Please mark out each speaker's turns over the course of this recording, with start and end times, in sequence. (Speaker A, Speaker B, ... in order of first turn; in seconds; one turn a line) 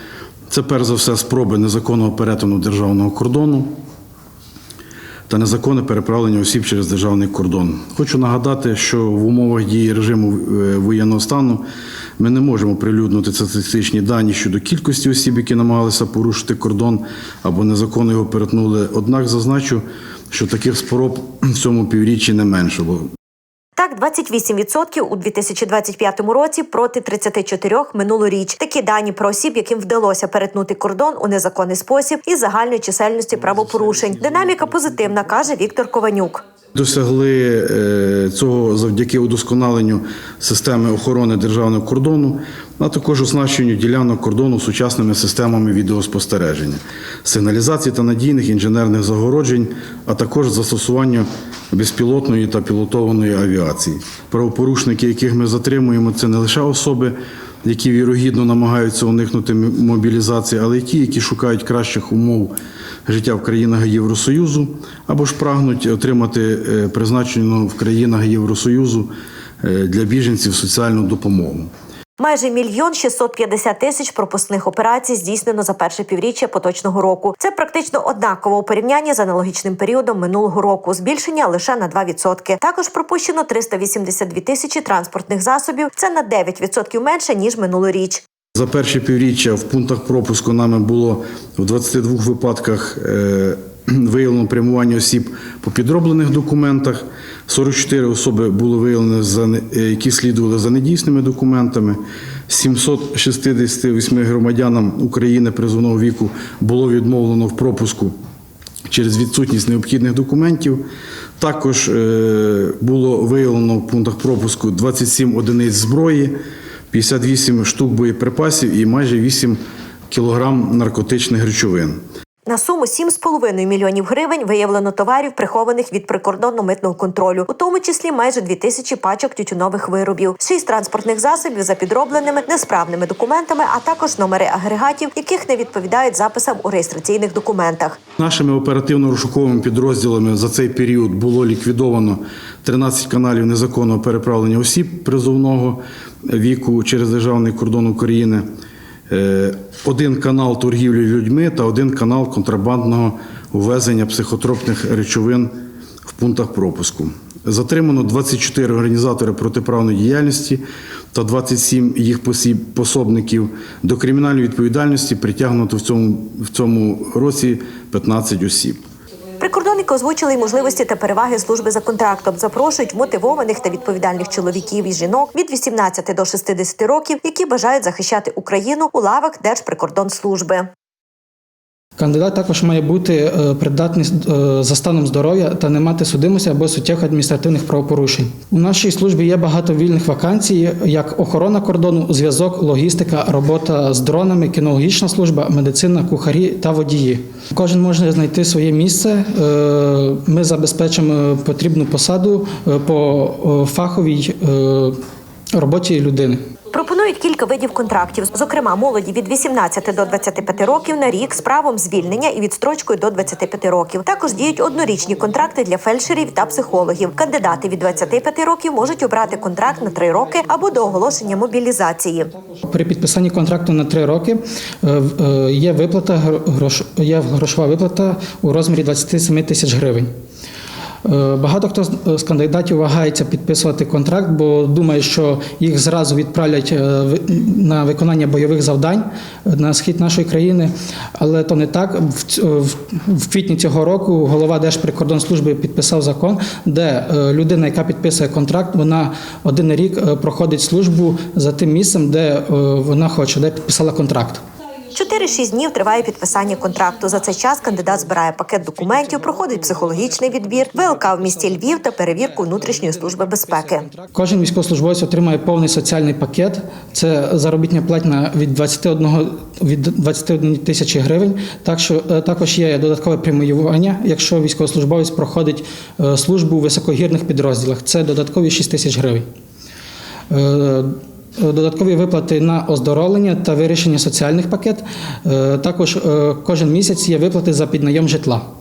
Speaker A: 0.5-3.7
Speaker A: 5.3-11.6
Speaker A: 12.2-23.1
Speaker B: 23.8-36.4
Speaker A: 33.4-35.5
Speaker A: 36.7-62.5
Speaker A: 63.0-69.1
Speaker A: 69.6-71.7
Speaker B: 72.2-88.2
Speaker A: 88.5-108.1
Speaker A: 108.9-110.8
Speaker A: 111.4-116.3
Speaker A: 116.9-119.6
Speaker A: 120.1-122.0
Speaker B: 122.5-138.0
Speaker A: 138.1-148.4
Speaker A: 149.1-155.5
Speaker A: 156.1-160.6
Speaker A: 161.1-168.8
Speaker B: 169.4-180.7
Speaker C: 182.0-204.9
Speaker C: 205.5-206.5
Speaker B: 206.7-222.3
Speaker C: 218.8-221.7
Speaker C: 222.5-230.1
Speaker C: 231.0-254.4
Speaker B: 254.9-263.9
Speaker C: 257.7-279.2
Speaker C: 280.3-288.4